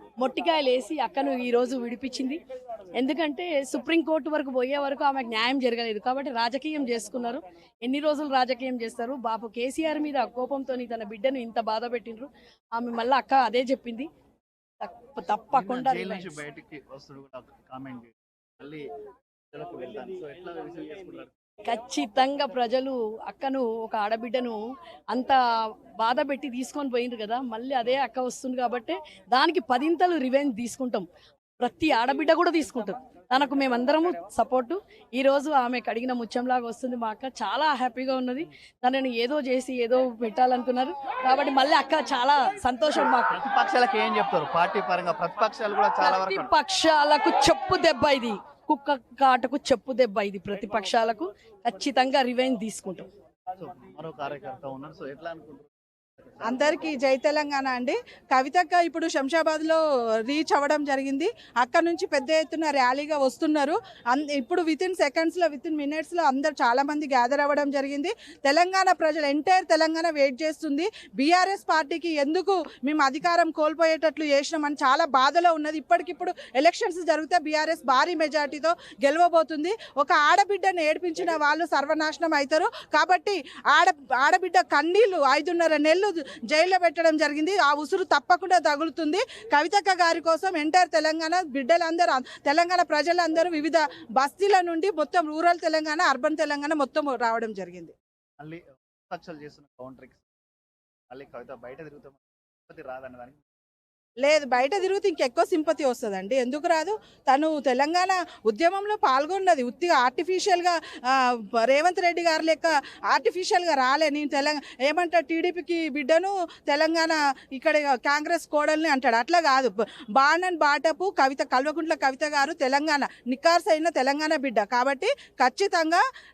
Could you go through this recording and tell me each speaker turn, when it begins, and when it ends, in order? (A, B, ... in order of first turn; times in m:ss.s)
0:00.2-0:02.4 A
0:02.9-0:14.1 A
0:14.8-0:16.4 A
0:15.5-0:18.8 B
0:19.5-0:21.3 B
0:21.6-0:24.6 A
0:25.1-0:25.4 A
0:26.0-0:31.0 A
0:31.6-0:43.4 A
0:43.3-0:46.5 B
0:46.0-0:53.1 A
0:53.6-0:56.8 B
0:56.4-1:37.9 C
1:38.4-1:40.2 B
1:41.1-1:43.4 B
1:44.2-2:06.0 C